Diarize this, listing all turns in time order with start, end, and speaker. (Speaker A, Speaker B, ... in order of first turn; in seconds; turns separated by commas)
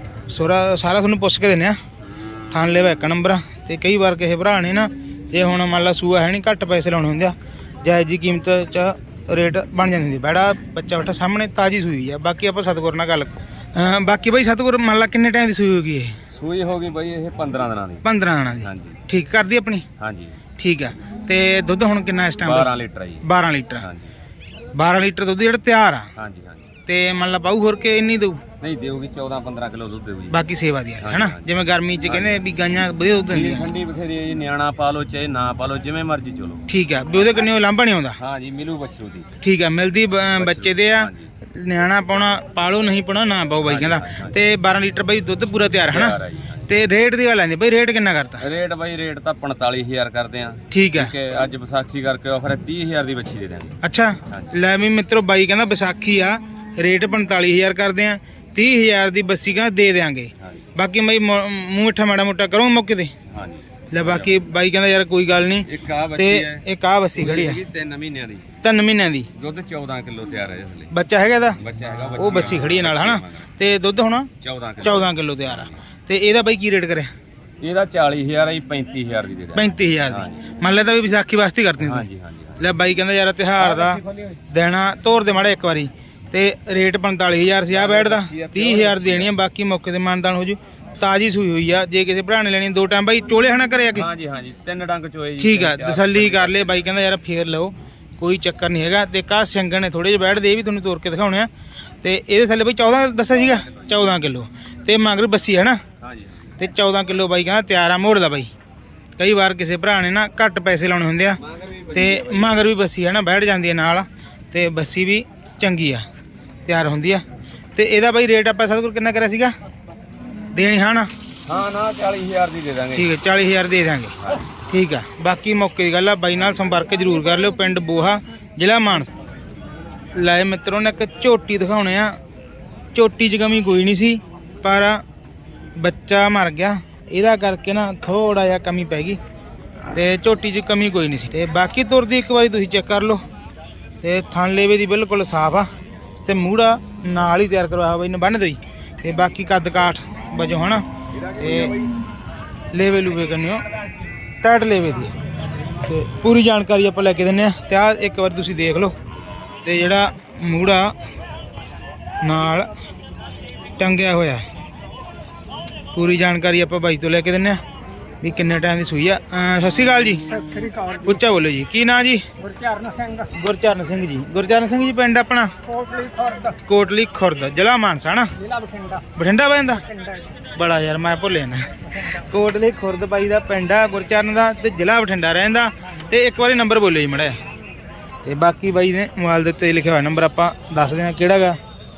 Speaker A: 0.3-1.8, Speaker A: 2.5-16.2, Speaker B: 16.3-18.1, Speaker A: 18.0-19.9, Speaker B: 18.6-19.0, Speaker B: 20.0-20.4, Speaker A: 20.6-23.9, Speaker B: 22.4-23.3, Speaker B: 23.8-24.1, Speaker A: 24.8-26.1, Speaker B: 26.2-26.7, Speaker A: 26.9-28.4, Speaker B: 28.6-30.4, Speaker A: 30.3-33.7, Speaker B: 31.0-32.5, Speaker B: 33.3-36.6, Speaker A: 36.7-38.2, Speaker B: 38.2-39.3, Speaker A: 39.4-48.5, Speaker B: 40.4-41.3, Speaker B: 43.6-44.4, Speaker B: 45.9-46.6, Speaker B: 48.4-53.8, Speaker A: 50.7-51.1, Speaker A: 53.8-63.1, Speaker B: 54.3-54.5, Speaker B: 63.3-64.3, Speaker A: 63.9-67.6, Speaker B: 65.7-68.5, Speaker A: 68.6-69.3, Speaker B: 69.3-70.9, Speaker A: 70.9-71.6, Speaker B: 71.6-73.5, Speaker A: 72.2-74.3, Speaker B: 74.4-75.1, Speaker A: 74.8-77.1, Speaker B: 77.6-80.4, Speaker A: 79.5-82.1, Speaker B: 81.8-82.6, Speaker A: 82.6-94.1, Speaker B: 83.7-84.3, Speaker B: 87.7-89.3, Speaker B: 94.0-96.9, Speaker A: 95.4-101.5, Speaker A: 102.0-105.8, Speaker B: 106.0-106.4, Speaker A: 106.6-108.5, Speaker A: 109.2-111.4, Speaker B: 111.5-112.6, Speaker A: 111.9-116.0, Speaker A: 116.7-117.2, Speaker A: 117.8-119.5, Speaker A: 120.5-121.1, Speaker B: 121.5-123.1, Speaker A: 122.9-124.1, Speaker A: 124.7-129.1, Speaker A: 130.1-132.2, Speaker A: 132.9-135.0, Speaker A: 135.8-139.2, Speaker A: 139.9-143.2, Speaker A: 144.0-151.8, Speaker A: 152.7-153.6, Speaker A: 154.4-155.2, Speaker A: 155.8-158.9, Speaker A: 159.6-160.9, Speaker A: 162.2-162.7, Speaker A: 163.8-164.5, Speaker A: 165.9-167.6, Speaker A: 168.2-170.4, Speaker C: 170.4-171.1, Speaker A: 171.0-172.3, Speaker C: 172.4-173.3, Speaker A: 173.3-175.5, Speaker C: 175.7-176.6, Speaker A: 176.6-178.3, Speaker C: 178.4-179.1, Speaker A: 179.2-179.9, Speaker C: 180.0-180.3, Speaker A: 180.6-187.4, Speaker A: 188.2-191.6